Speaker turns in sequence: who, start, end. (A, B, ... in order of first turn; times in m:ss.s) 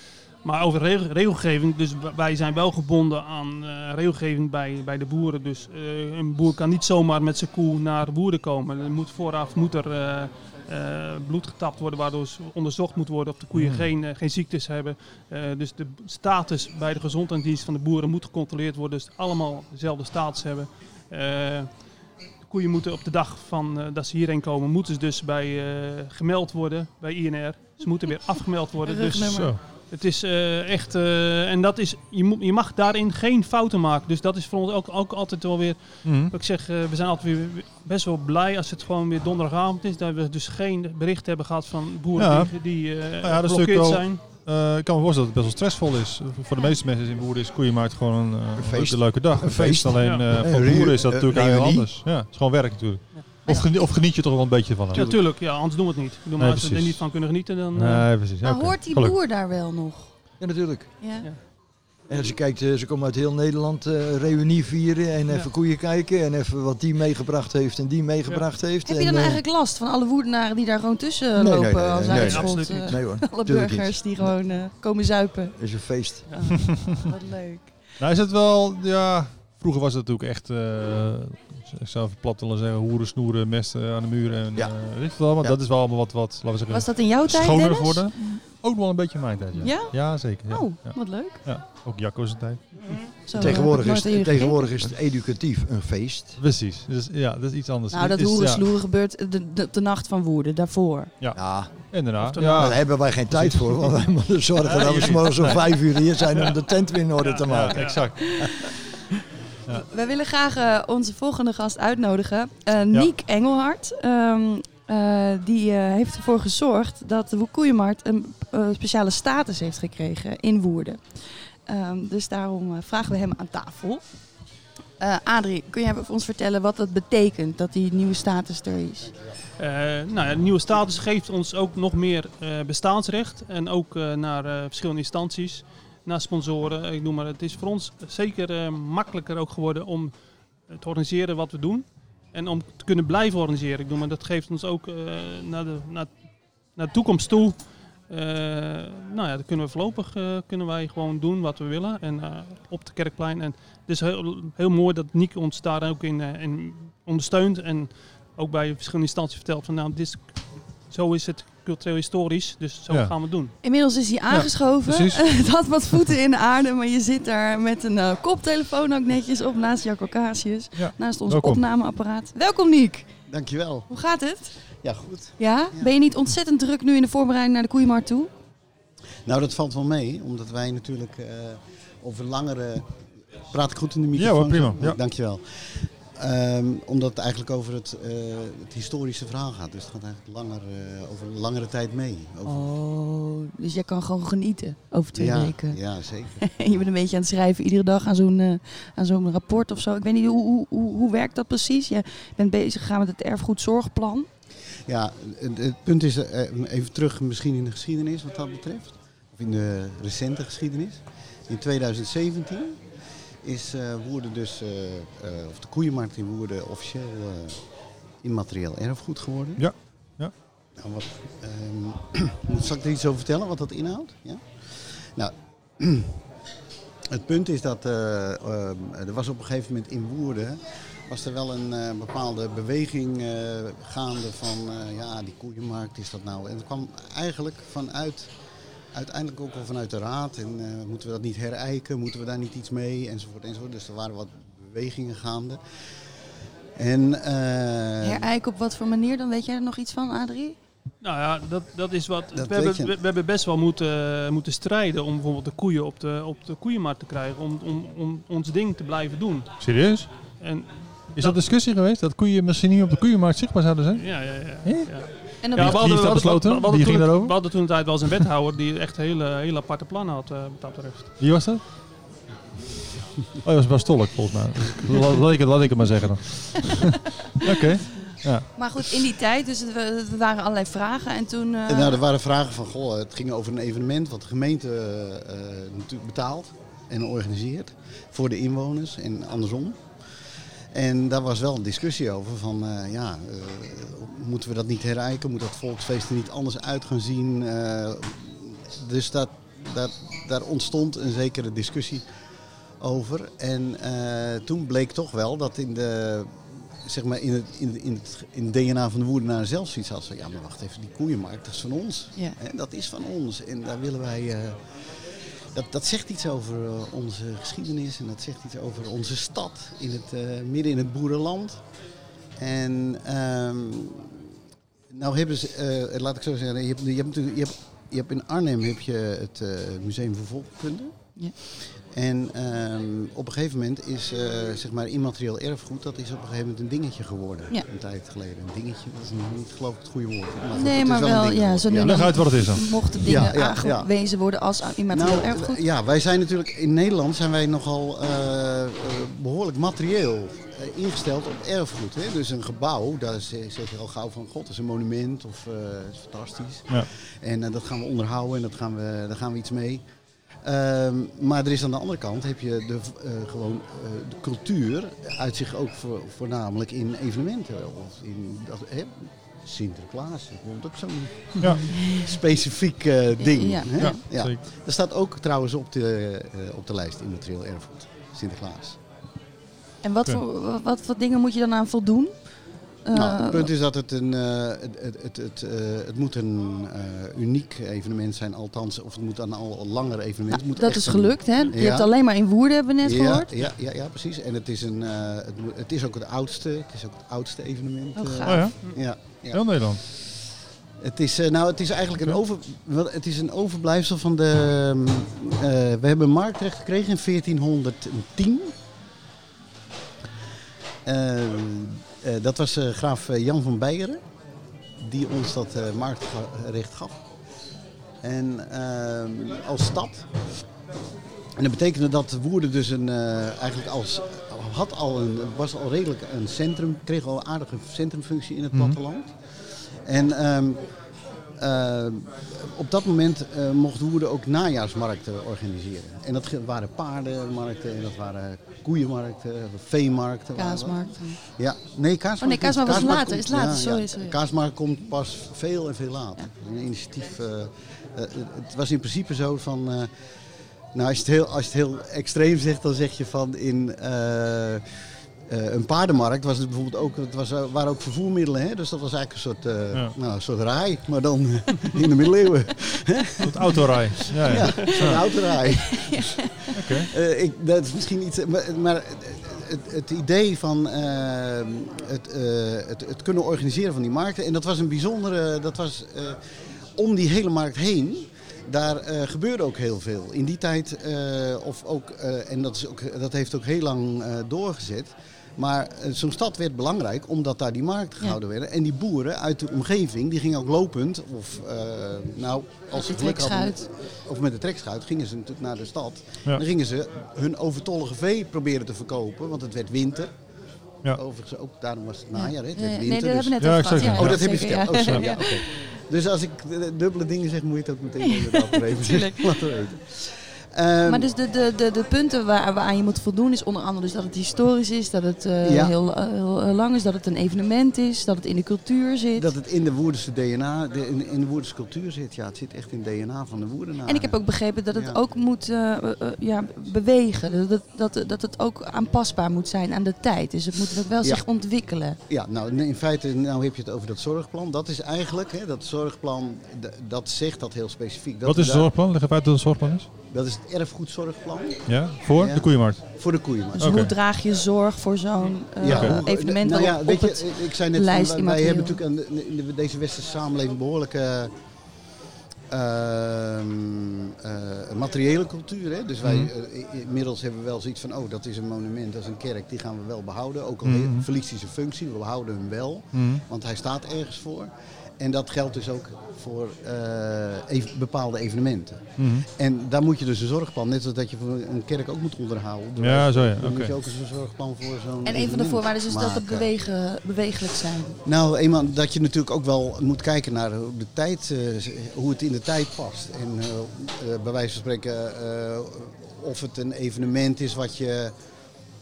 0:00.4-0:44.2 A
0:13.5-0:13.9 B
0:28.8-0:29.5 C
0:29.3-0:29.6 B
0:36.0-0:36.3 B
0:42.2-0:55.4 B
0:48.6-0:51.9 D
0:53.1-0:53.6 A
0:54.9-0:58.1 A
0:56.4-0:57.1 B
0:57.8-0:59.2 B
0:58.4-1:00.1 C
1:00.4-1:01.4 D
1:01.0-1:01.3 C
1:02.1-1:09.4 D
1:08.8-1:15.8 C
1:11.4-1:14.4 D
1:12.1-1:13.0 A
1:15.6-1:16.7 D
1:16.3-1:18.0 C
1:18.0-1:33.6 B
1:26.7-1:28.4 C
1:29.6-1:31.5 C
1:32.8-1:33.1 A
1:33.0-1:34.9 C
1:33.3-1:36.4 D
1:36.4-1:38.7 B
1:37.9-1:41.1 C
1:41.2-1:43.9 B
1:41.4-1:42.0 D
1:42.2-1:43.0 A
1:42.5-1:48.4 D
1:44.6-1:45.3 A
1:44.7-1:45.7 B
1:47.2-1:48.3 A
1:47.5-1:48.7 B
1:48.2-1:48.6 C
1:49.7-2:04.0 C
2:05.0-2:09.2 C
2:09.6-2:43.5 A
2:43.6-2:53.1 C
2:44.3-2:45.4 B
2:50.8-2:51.6 B
2:53.3-2:53.9 E
2:53.9-2:54.6 C
2:54.8-2:55.9 E
2:55.4-2:58.3 C
2:59.3-3:02.9 E
3:03.5-3:12.7 E
3:04.2-3:05.0 B
3:12.5-3:15.8 C
3:15.2-3:16.4 E
3:16.4-3:24.3 C
3:24.9-3:32.8 E
3:33.4-3:37.7 E
3:38.2-3:39.7 E
3:39.6-3:40.3 B
3:40.8-3:46.2 E
3:47.1-3:58.3 E
3:58.9-4:05.6 E
4:06.8-4:08.3 E
4:08.0-4:10.6 C
4:11.0-4:19.7 A
4:12.3-4:12.9 E
4:19.6-4:20.1 B
4:20.4-4:21.4 A
4:21.2-4:27.5 B
4:24.0-4:31.1 A
4:25.4-4:25.8 C
4:31.2-4:31.6 B
4:33.4-4:38.9 B
4:38.5-4:42.0 C
4:41.7-4:49.9 E
4:50.7-5:02.0 E
5:02.8-5:14.7 E
5:15.5-5:21.6 E
5:22.4-5:24.2 E
5:24.9-5:31.1 E
5:31.8-5:43.9 E
5:40.5-5:45.6 C
5:41.7-5:42.9 B
5:44.9-5:59.8 E
6:00.4-6:18.8 E
6:11.6-6:12.1 C
6:13.2-6:14.0 C
6:13.8-6:14.4 B
6:19.8-6:23.5 C
6:22.9-6:31.9 E
6:30.3-6:33.3 C
6:32.8-6:40.1 E
6:38.0-6:38.5 C
6:38.2-6:39.8 B
6:40.8-6:48.5 E
6:50.8-6:54.0 E
6:54.8-6:57.0 E
6:58.0-7:00.1 E
7:01.4-7:10.6 E
7:11.4-7:29.9 E
7:20.4-7:21.2 C
7:22.2-7:24.2 C
7:30.7-7:34.6 E
7:35.3-7:56.2 E
7:43.2-7:45.0 B
7:44.6-7:46.6 C
7:46.5-7:46.9 B
7:56.8-8:20.1 E
8:12.8-8:13.7 C
8:20.9-8:31.1 E
8:22.2-8:25.5 C
8:23.4-8:24.2 B
8:24.8-8:25.3 B
8:28.1-8:29.4 C
8:30.9-8:39.3 C
8:35.4-8:35.8 E
8:39.2-8:44.2 E
8:43.9-8:52.0 C
8:44.7-8:45.0 E
8:52.1-8:58.7 E
8:58.2-8:59.9 B
9:00.1-9:03.9 E
9:01.7-9:02.8 B
9:03.6-9:08.8 C
9:03.6-9:03.9 B
9:05.6-9:11.3 E
9:05.6-9:06.0 B
9:12.5-9:36.5 E
9:16.0-9:16.3 B
9:20.6-9:21.1 B
9:22.9-9:23.2 B
9:29.0-9:29.3 B
9:32.8-9:33.8 B
9:35.0-9:38.0 C
9:38.0-9:48.1 E